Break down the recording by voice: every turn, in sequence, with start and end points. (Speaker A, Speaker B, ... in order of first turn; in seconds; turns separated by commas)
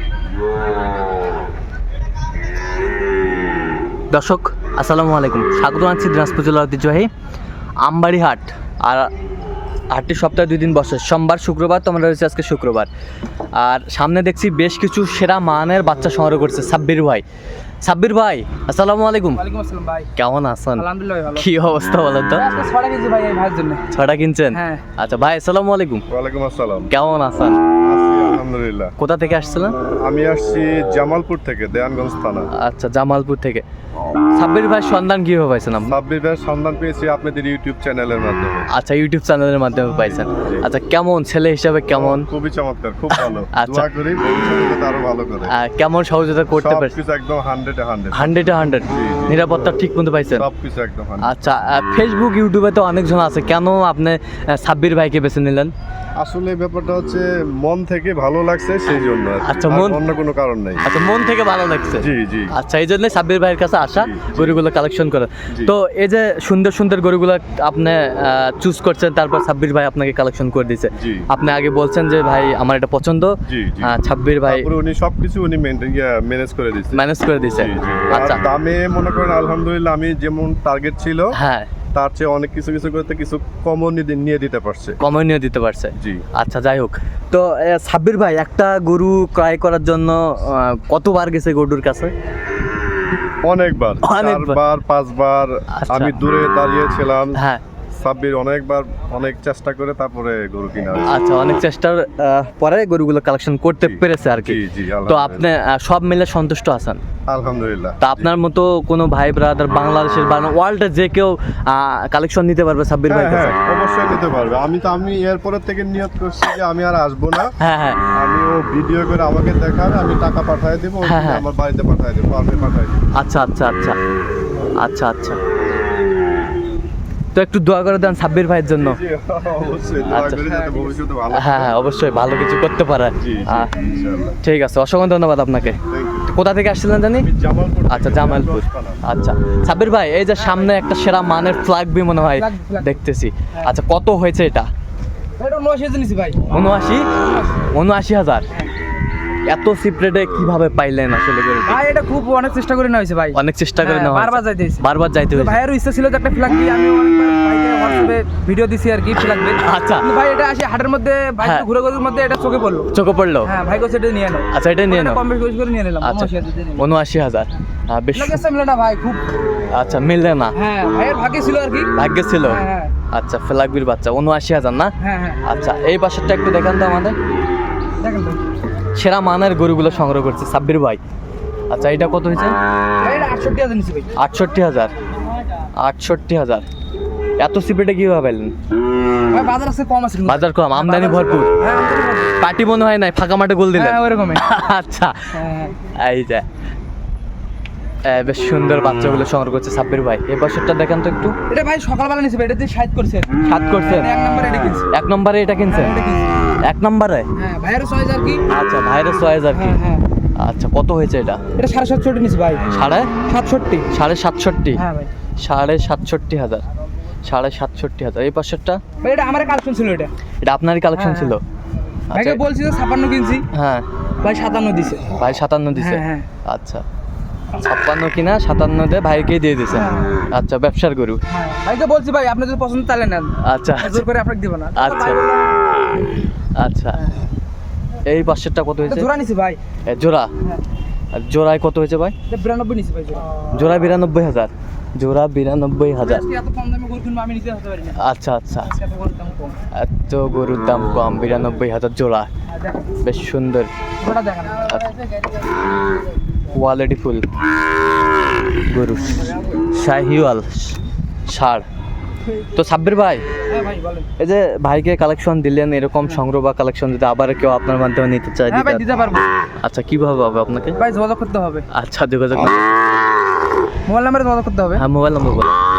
Speaker A: 4.1-7.1, Speaker A: 7.8-9.1, Speaker A: 9.9-12.9, Speaker A: 13.6-17.2, Speaker A: 17.8-19.4, Speaker B: 19.4-20.1, Speaker A: 20.2-22.5, Speaker B: 20.8-21.5, Speaker B: 22.3-23.9, Speaker A: 23.9-26.1, Speaker B: 24.5-24.8, Speaker C: 26.1-26.9, Speaker A: 26.9-27.6, Speaker C: 27.8-28.9, Speaker A: 29.0-29.8, Speaker C: 29.8-32.5, Speaker A: 32.6-33.6, Speaker A: 34.4-36.0, Speaker C: 35.9-38.7, Speaker A: 38.7-42.3, Speaker C: 40.4-40.7, Speaker C: 41.9-45.5, Speaker A: 43.5-43.9, Speaker A: 45.5-47.0, Speaker C: 46.5-49.4, Speaker A: 48.1-50.5, Speaker C: 50.4-51.3, Speaker A: 51.2-55.7, Speaker C: 56.2-60.8, Speaker A: 59.4-60.0, Speaker A: 60.8-74.7, Speaker C: 62.0-62.5, Speaker C: 63.9-64.6, Speaker C: 71.0-71.2, Speaker C: 73.5-77.0, Speaker A: 76.9-78.4, Speaker C: 77.6-81.3, Speaker A: 81.3-81.7, Speaker C: 81.9-85.0, Speaker A: 85.0-92.1, Speaker C: 86.0-86.2, Speaker C: 93.4-97.4, Speaker A: 94.0-94.6, Speaker A: 95.7-96.2, Speaker A: 97.4-97.6, Speaker C: 98.0-101.1, Speaker A: 101.1-107.0, Speaker C: 103.8-105.5, Speaker C: 107.3-108.3, Speaker A: 108.0-113.6, Speaker C: 113.1-117.5, Speaker A: 117.6-118.1, Speaker C: 118.1-123.0, Speaker A: 121.0-121.5, Speaker A: 123.2-124.0, Speaker A: 124.8-125.4, Speaker A: 127.3-129.0, Speaker C: 128.8-131.8, Speaker A: 130.1-130.4, Speaker B: 130.4-131.0, Speaker A: 131.3-133.7, Speaker C: 133.2-134.4, Speaker A: 134.4-135.8, Speaker C: 135.9-136.3, Speaker A: 136.3-137.3, Speaker C: 137.2-139.0, Speaker A: 137.9-144.7, Speaker B: 142.2-143.0, Speaker B: 145.4-146.4, Speaker A: 146.5-148.5, Speaker A: 149.5-151.8, Speaker B: 151.7-162.9, Speaker A: 153.3-155.6, Speaker A: 159.6-160.1, Speaker A: 161.4-161.7, Speaker A: 162.9-163.5, Speaker B: 163.4-166.9, Speaker A: 164.5-165.2, Speaker A: 166.0-168.4, Speaker B: 168.2-169.3, Speaker A: 169.7-170.6, Speaker B: 170.6-171.9, Speaker A: 171.9-174.9, Speaker B: 172.5-172.9, Speaker B: 175.0-175.4, Speaker A: 175.4-177.2, Speaker B: 178.0-178.4, Speaker A: 178.9-181.0, Speaker A: 181.7-182.6, Speaker B: 183.0-184.1, Speaker A: 184.2-184.9, Speaker A: 185.8-186.7, Speaker A: 187.4-188.5, Speaker B: 189.3-192.4, Speaker A: 190.2-191.5, Speaker A: 192.4-196.4, Speaker B: 193.7-194.4, Speaker B: 195.3-195.8, Speaker A: 198.1-201.3, Speaker B: 201.5-204.9, Speaker A: 203.4-204.1, Speaker A: 204.9-205.9, Speaker B: 205.7-206.4, Speaker A: 206.6-207.3, Speaker B: 207.4-208.4, Speaker A: 208.5-209.8, Speaker B: 209.5-210.0, Speaker A: 210.4-211.4, Speaker B: 211.6-212.7, Speaker A: 212.7-213.2, Speaker B: 213.2-213.9, Speaker A: 213.9-214.8, Speaker B: 214.8-215.1, Speaker A: 215.4-216.6, Speaker A: 217.2-218.8, Speaker B: 219.0-220.1, Speaker A: 220.4-221.4, Speaker B: 220.9-221.4, Speaker A: 222.1-222.4, Speaker B: 222.1-223.5, Speaker A: 223.5-223.9, Speaker B: 224.2-225.2, Speaker A: 225.2-226.8, Speaker B: 225.8-226.3, Speaker A: 227.6-231.2, Speaker B: 229.7-230.2, Speaker B: 231.3-235.8, Speaker A: 233.4-234.1, Speaker A: 234.8-235.2, Speaker A: 236.6-237.0, Speaker A: 238.1-239.1, Speaker B: 238.8-239.6, Speaker A: 239.9-240.3, Speaker A: 241.1-242.2, Speaker B: 242.3-243.5, Speaker A: 243.5-246.2, Speaker B: 246.0-248.0, Speaker A: 248.0-248.7, Speaker B: 248.7-249.6, Speaker A: 249.7-252.3, Speaker A: 253.0-253.7, Speaker B: 254.0-255.4, Speaker A: 254.7-254.9, Speaker A: 256.5-257.3, Speaker A: 258.7-261.6, Speaker A: 262.6-263.2, Speaker B: 263.5-264.1, Speaker A: 264.2-268.9, Speaker B: 268.5-269.3, Speaker A: 269.6-270.8, Speaker B: 270.8-271.7, Speaker A: 271.7-273.0, Speaker B: 273.9-274.8, Speaker A: 274.8-275.6